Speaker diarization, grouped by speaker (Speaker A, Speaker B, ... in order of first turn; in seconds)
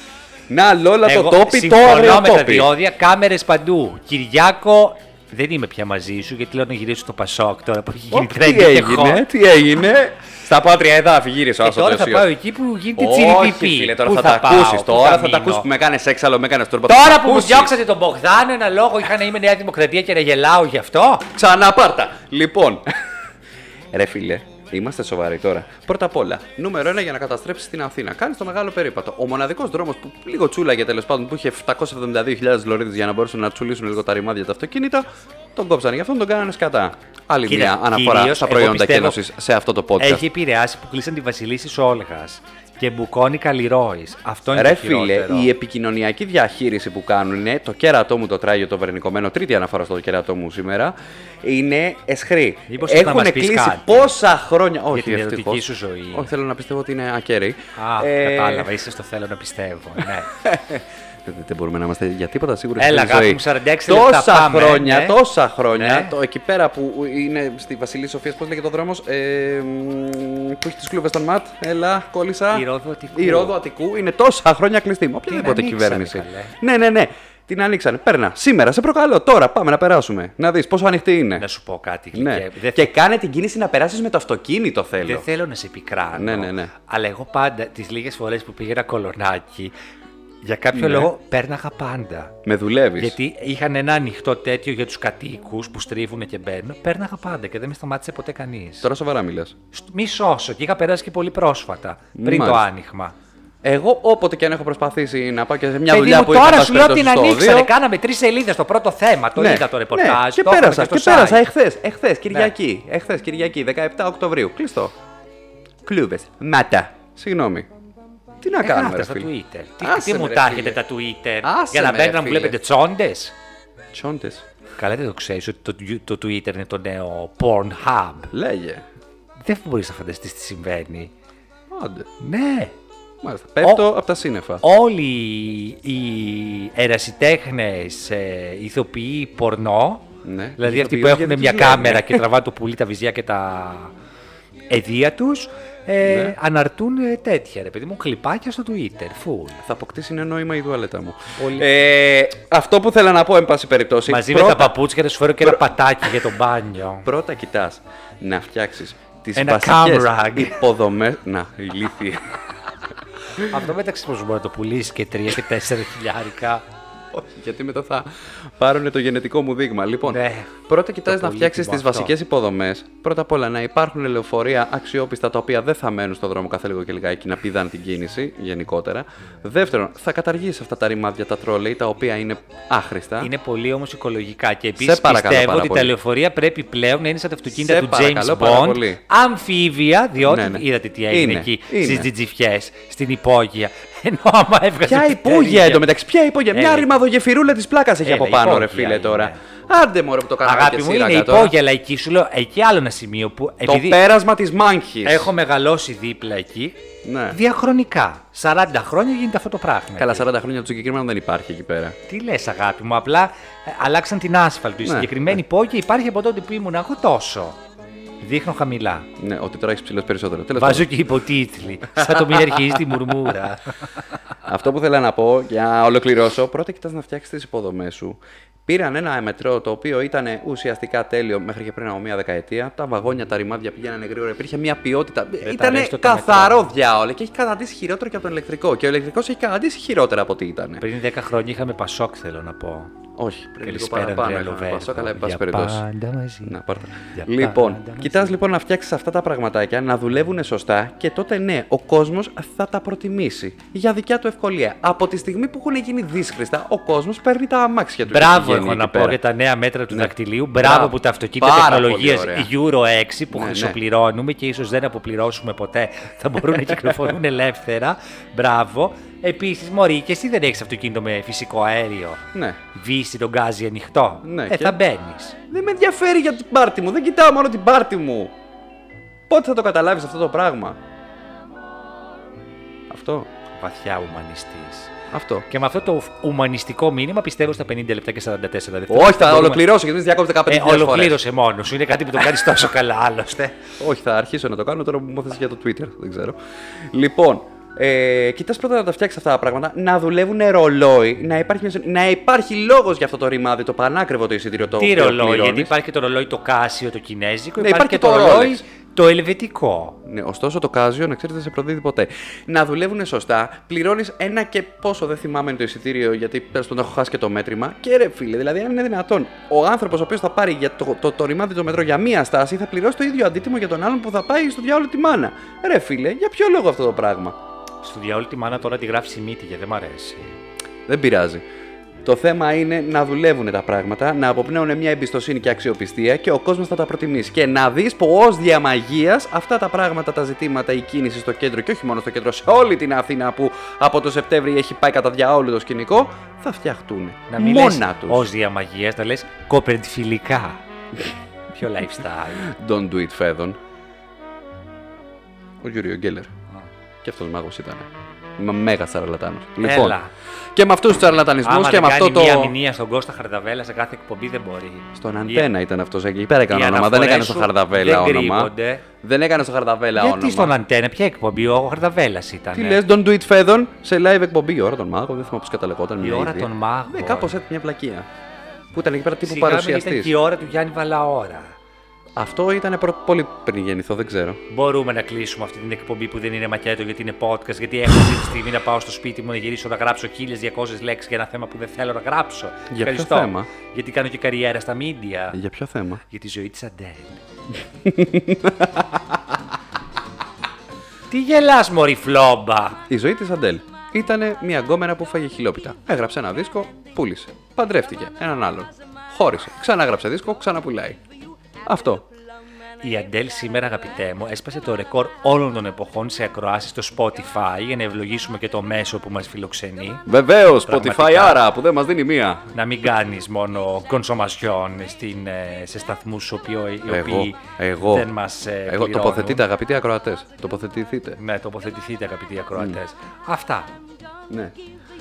Speaker A: 0.5-2.7, 8.1-12.3, 13.0-17.7, 21.3-22.9, 23.9-40.2, 44.5-58.7, 60.4-81.4, 82.1-85.2, 86.1-86.7, 90.7-91.1, 92.4-93.2, 98.8-99.5, 102.2-102.6, 103.6-107.7, 109.4-114.9, 115.8-117.7, 118.4-120.8, 121.4-122.6, 123.9-124.5, 128.3-128.8, 131.7-132.1, 133.2-134.6, 140.2-142.2, 146.0-146.3, 149.6-154.7, 155.4-156.2, 157.0-162.4, 167.1-183.3, 184.8-185.9, 187.5-189.0, 190.2-192.1, 194.8-201.5, 203.6-205.3, 207.0-207.4, 209.9-211.9, 214.8-215.3, 219.2-220.9, 221.9-223.3, 224.4-240.8, 243.2-245.8, 246.4-259.2, 259.9-262.5, 263.3-263.8, 266.5-267.1, 272.3-272.6, 274.2-274.8, 275.5-278.3, 279.3-280.8, 282.9-283.3, 285.1-285.5, 288.9-291.2, 293.8-305.7, 307.6-308.6, 310.0-327.4, 330.9-331.4, 332.0-348.3, 352.4-353.6, 355.6-356.3, 357.0-360.0, 360.5-362.5, 364.9-370.5, 372.5-378.1, 378.7-380.1, 382.1-384.4, 392.7-393.5, 395.3-396.0, 397.8-399.3, 402.9-411.0, 411.6-412.1, 420.1-422.5, 426.9-428.1, 428.7-431.2, 434.3-434.6
Speaker B: 1.0-9.2, 11.6-15.7, 16.9-21.3, 37.5-39.2, 40.0-45.5, 52.7-54.1, 54.9-56.3, 57.8-60.3, 62.8-65.2, 65.7-66.1, 72.5-73.5, 75.3-76.5, 81.4-82.9, 85.0-89.7, 90.4-92.4, 93.0-98.9, 99.7-103.1, 105.9-111.4, 118.6-123.3, 124.8-128.3, 129.4-131.1, 132.2-132.8, 134.6-143.9, 144.7-149.6, 151.4-151.7, 154.1-157.1, 159.3-160.6, 163.3-166.6, 170.1-170.6, 171.1-172.1, 183.2-195.8, 196.5-196.9, 198.0-199.4, 200.4-204.0, 205.0-206.8, 207.3-210.2, 212.1-217.6, 218.2-219.1, 220.6-223.8, 235.4-236.7, 240.8-242.9, 243.6-248.4, 258.1-275.4, 283.6-284.9, 285.5-289.6, 290.5-293.6, 304.8-310.0, 327.8-330.4, 347.3-350.6, 351.5-352.5, 359.6-360.1, 361.4-365.5, 366.5-368.8, 369.9-372.8, 376.0-377.4, 379.2-381.5, 384.5-395.4, 396.1-397.2, 401.1-402.8, 412.8-421.4, 422.5-429.5, 431.2-433.7